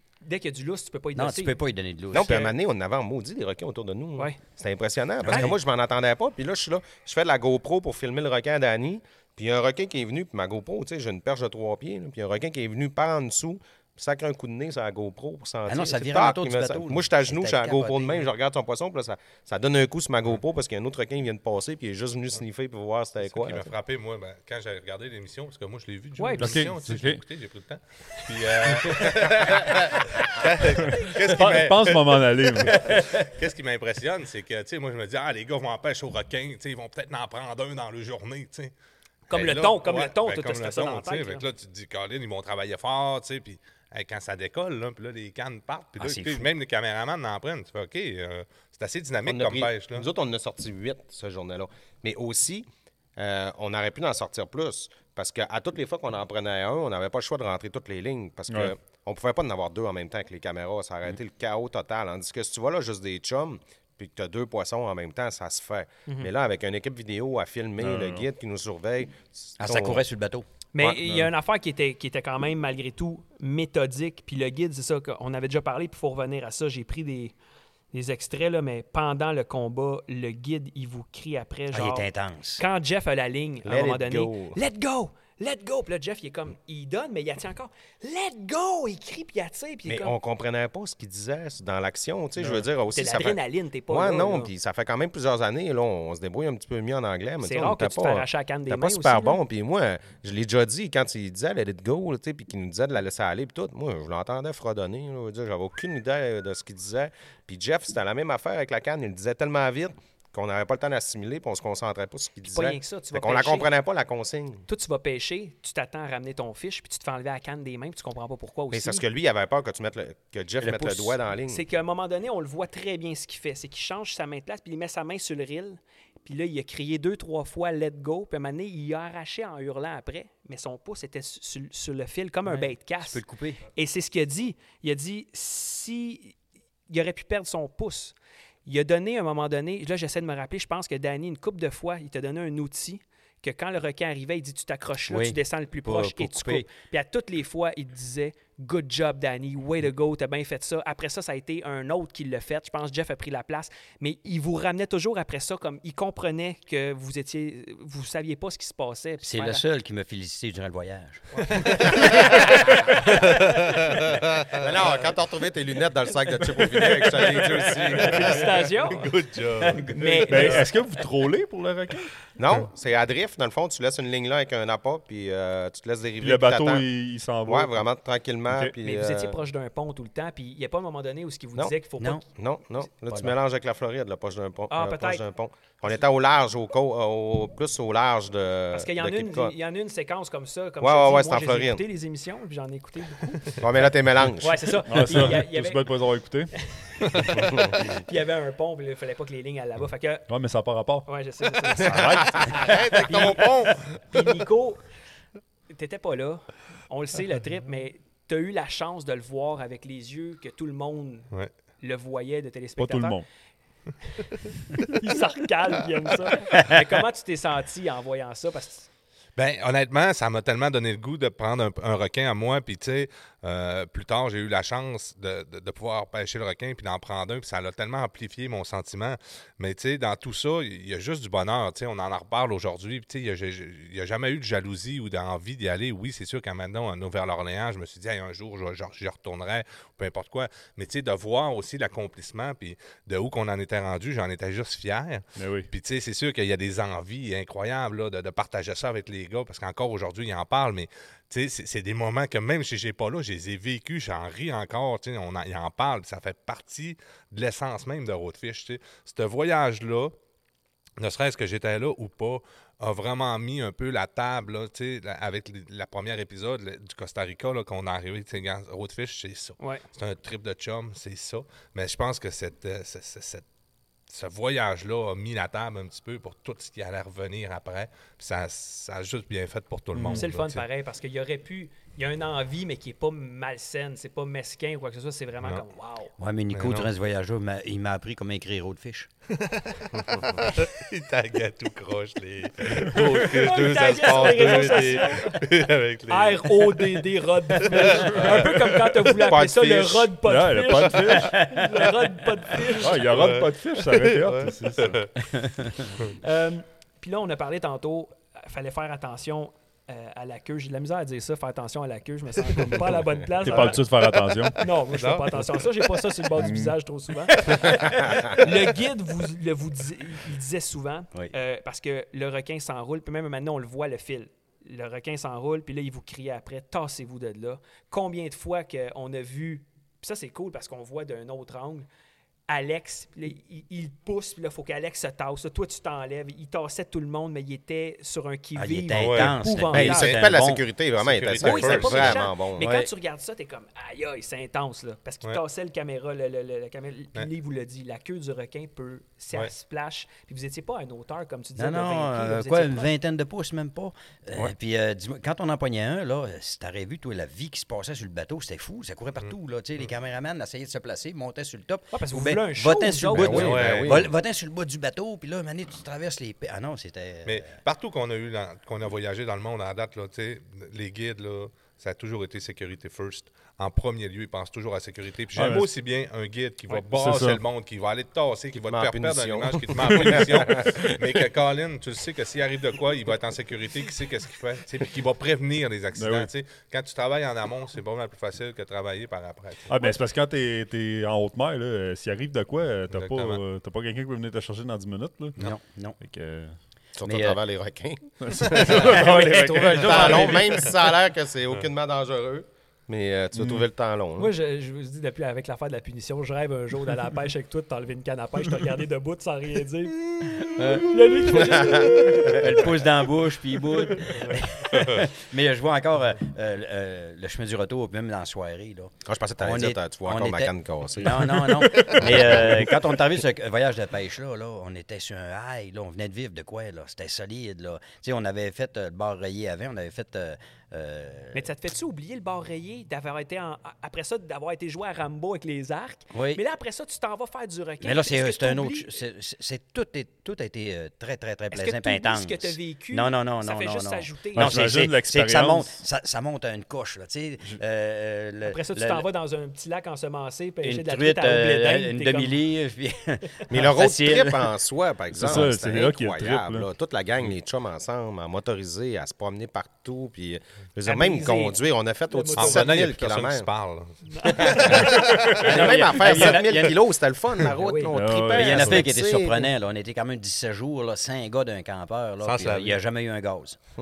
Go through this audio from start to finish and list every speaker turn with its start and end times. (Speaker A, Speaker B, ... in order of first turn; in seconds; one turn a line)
Speaker A: 0.2-1.6
Speaker B: 1.1-2.5
Speaker C: 2.1-23.7
Speaker A: 5.3-5.5
Speaker B: 15.7-18.2
Speaker D: 23.3-38.7
Speaker A: 26.2-26.6
Speaker E: 26.4-27.2
Speaker E: 30.8-33.0
Speaker A: 39.3-41.5
Speaker D: 39.3-50.0
Speaker B: 46.0-46.5
Speaker C: 49.2-70.0
Speaker E: 67.8-68.2
Speaker B: 69.6-70.4
Speaker A: 70.7-77.3
Speaker C: 70.8-71.3
Speaker A: 77.9-90.1
Speaker B: 81.7-82.6
Speaker C: 83.6-84.6
Speaker C: 89.8-114.7
Speaker E: 92.4-92.7
Speaker A: 92.9-94.5
Speaker A: 97.4-99.4
Speaker A: 112.4-113.7
Speaker A: 114.7-119.0
Speaker C: 118.7-121.6
Speaker B: 120.6-121.2
Speaker A: 121.5-136.3
Speaker B: 132.5-133.6
Speaker A: 136.9-159.6
Speaker B: 145.1-146.6
Speaker B: 159.2-163.1
Speaker D: 161.4-162.5
Speaker D: 163.2-164.6
Speaker C: 164.5-168.7
Speaker B: 166.7-167.4
Speaker D: 167.4-169.9
Speaker A: 167.9-169.1
Speaker B: 169.6-170.6
Speaker A: 169.9-170.7
Speaker E: 170.2-172.1
Speaker C: 172.4-176.8
Speaker E: 176.2-177.8
Speaker C: 177.4-179.4
Speaker E: 178.5-178.7
Speaker A: 178.8-182.2
Speaker B: 182.0-182.2
Speaker C: 182.3-189.5
Speaker B: 183.1-183.3
Speaker A: 184.7-185.2
Speaker A: 188.7-193.6
Speaker C: 190.8-191.8
Speaker C: 193.6-195.3
Speaker A: 194.4-196.0
Speaker E: 194.8-196.5
Speaker A: 196.6-200.3
Speaker C: 197.4-197.7
Speaker E: 200.3-201.1
Speaker A: 201.1-204.8
Speaker E: 201.8-202.6
Speaker C: 201.8-202.5
Speaker D: 202.5-203.9
Speaker A: 205.7-213.2
Speaker E: 212.8-213.2
Speaker A: 214.8-218.9
Speaker D: 219.3-260.1
Speaker E: 245.3-245.7
Speaker D: 261.0-273.4
Speaker D: 274.1-280.6
Speaker E: 279.9-280.3
Speaker A: 280.1-286.1
Speaker B: 286.2-289.1
Speaker D: 286.5-286.9
Speaker D: 289.4-297.0
Speaker A: 292.9-295.4
Speaker A: 296.1-303.1
Speaker D: 297.6-298.8
Speaker C: 299.1-300.1
Speaker E: 300.2-301.6
Speaker E: 302.8-305.1
Speaker D: 303.1-305.1
Speaker B: 305.2-305.9
Speaker A: 306.1-313.8
Speaker E: 313.4-314.6
Speaker A: 314.6-331.9
Speaker D: 314.9-315.5
Speaker E: 316.3-316.8
Speaker C: 318.1-318.3
Speaker A: 332.5-340.1
Speaker B: 338.5-340.6
Speaker D: 338.9-340.2
Speaker C: 339.7-342.7
Speaker D: 341.0-342.2
Speaker A: 341.4-352.9
Speaker B: 342.6-342.9
Speaker B: 351.6-367.5
Speaker D: 359.2-359.9
Speaker A: 361.9-363.5
Speaker C: 363.1-364.1
Speaker D: 363.3-364.1
Speaker D: 367.2-389.7
Speaker E: 375.3-375.7
Speaker E: 376.7-377.4
Speaker C: 378.5-381.2
Speaker E: 385.9-386.3
Speaker E: 389.7-395.4
Speaker D: 392.9-393.4
Speaker B: 395.4-396.0
Speaker E: 396.0-396.6
Speaker C: 397.0-404.3
Speaker B: 397.0-397.4
Speaker E: 398.2-400.5
Speaker B: 398.5-400.7
Speaker E: 403.3-403.6
Speaker A: 404.2-412.7
Speaker B: 410.5-410.9
Speaker C: 411.4-412.0
Speaker B: 412.1-431.5
Speaker D: 414.2-415.0
Speaker C: 419.1-422.7
Speaker D: 421.7-422.2
Speaker A: 431.3-439.0
Speaker B: 436.1-436.4
Speaker B: 437.8-449.1
Speaker A: 441.5-444.6
Speaker E: 444.3-445.8
Speaker A: 448.4-452.5
Speaker B: 450.6-454.5
Speaker C: 453.5-463.5
Speaker E: 455.1-456.7
Speaker A: 460.8-462.8
Speaker D: 462.4-465.5
Speaker A: 464.1-464.9
Speaker C: 464.3-469.5
Speaker B: 464.5-466.8
Speaker A: 467.6-467.9
Speaker E: 467.9-468.8
Speaker B: 468.3-473.6
Speaker D: 472.2-472.8